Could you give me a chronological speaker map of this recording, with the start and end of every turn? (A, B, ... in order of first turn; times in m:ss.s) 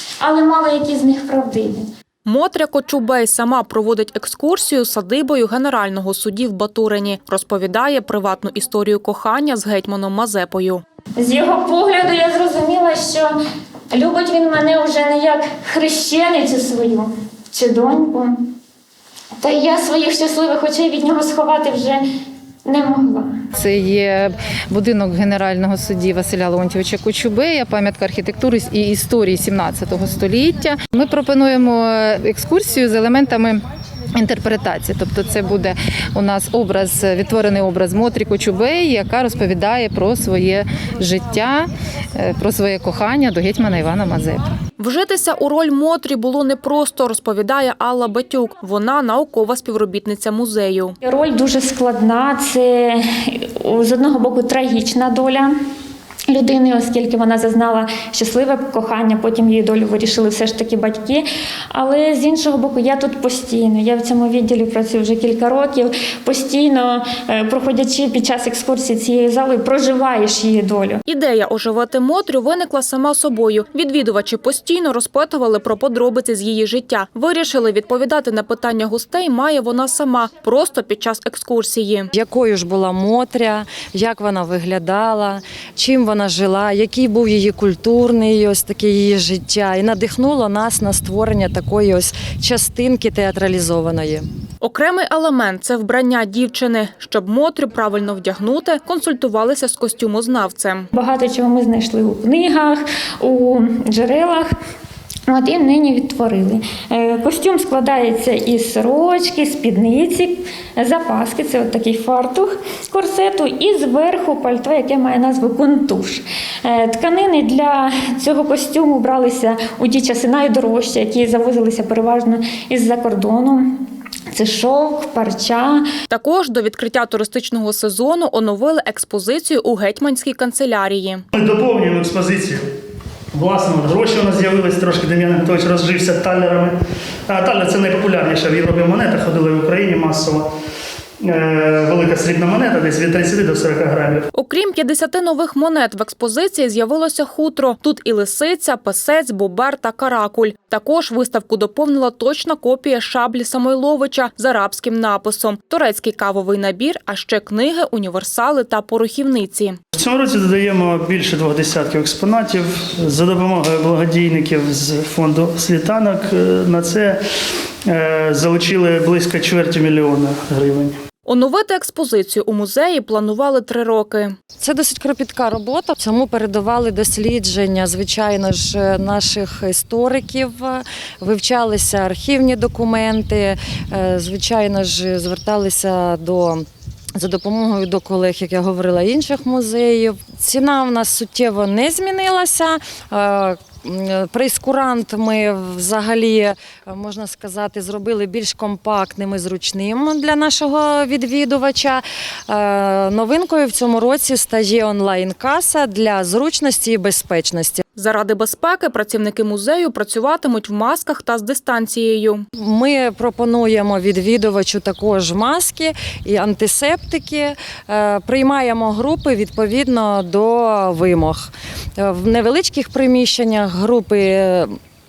0:00.2-0:01.8 A
0:02.2-0:10.8 B
0:11.2-0:13.3 A
0:13.9-0:18.3 A
0:19.4-0:22.0 A
0:22.6-0:23.3 A
0:23.5-0:44.4 C
0:44.8-0:51.0 B
0:51.0-0:55.5 A
0:56.3-1:11.0 A
1:11.0-1:22.1 B
1:22.1-1:34.3 D
1:34.6-1:40.9 B
1:40.9-1:44.5 A
1:45.3-2:03.7 A
2:04.3-2:05.8 A
2:06.1-2:11.2 B
2:11.3-2:12.6 E
2:13.3-2:20.5 E
2:21.2-2:24.2 E
2:24.3-2:39.8 B
2:40.0-2:47.2 E
2:47.8-2:51.0 E
2:51.2-2:54.4 B
2:54.6-3:06.6 D
3:07.2-3:27.8 D
3:28.0-3:32.4 B
3:32.6-3:44.8 D